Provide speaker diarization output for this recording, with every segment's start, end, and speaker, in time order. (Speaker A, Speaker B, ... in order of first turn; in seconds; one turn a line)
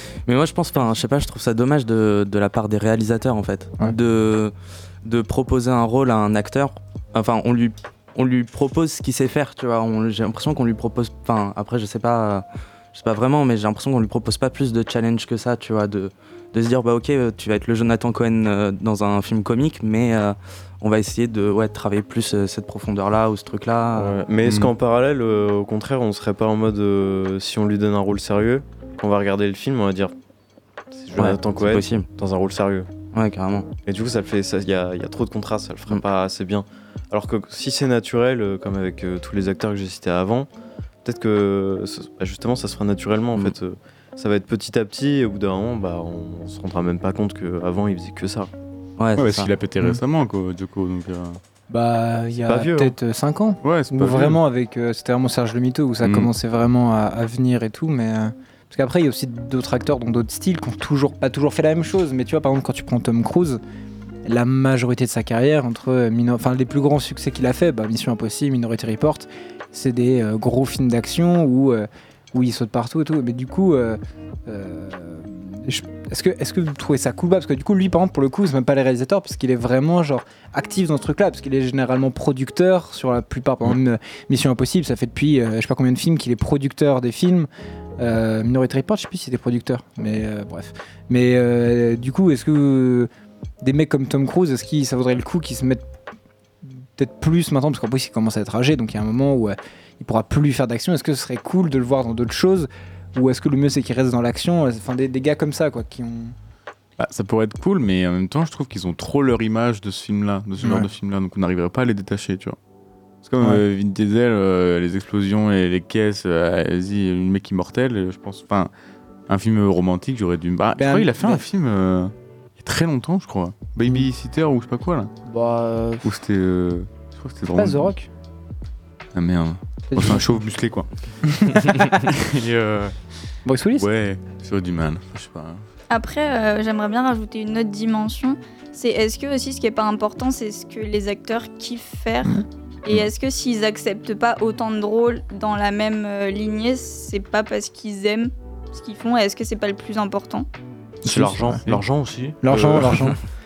Speaker A: 0.3-24.2
Speaker B: 23.9-30.1
Speaker C: 24.5-24.7
Speaker B: 30.9-32.9
Speaker A: 31.1-32.1
Speaker A: 33.1-33.7
Speaker B: 33.9-40.5
Speaker B: 41.0-48.5
Speaker A: 49.0-49.5
Speaker C: 49.1-51.4
Speaker D: 51.7-63.6
Speaker B: 52.5-53.0
Speaker C: 53.6-54.4
Speaker D: 64.2-87.5
Speaker D: 88.0-93.1
Speaker D: 93.6-95.8
Speaker D: 96.6-106.3
Speaker C: 107.0-112.6
Speaker D: 110.6-110.9
Speaker C: 113.2-118.7
Speaker C: 119.3-125.1
Speaker D: 120.8-121.5
Speaker D: 125.3-126.1
Speaker C: 126.0-127.9
Speaker D: 127.6-128.1
Speaker C: 129.1-133.0
Speaker D: 129.9-130.2
Speaker D: 131.3-132.0
Speaker D: 133.4-133.9
Speaker C: 133.8-135.6
Speaker E: 135.9-150.5
Speaker B: 151.0-153.0
Speaker D: 151.1-151.6
Speaker D: 152.4-153.2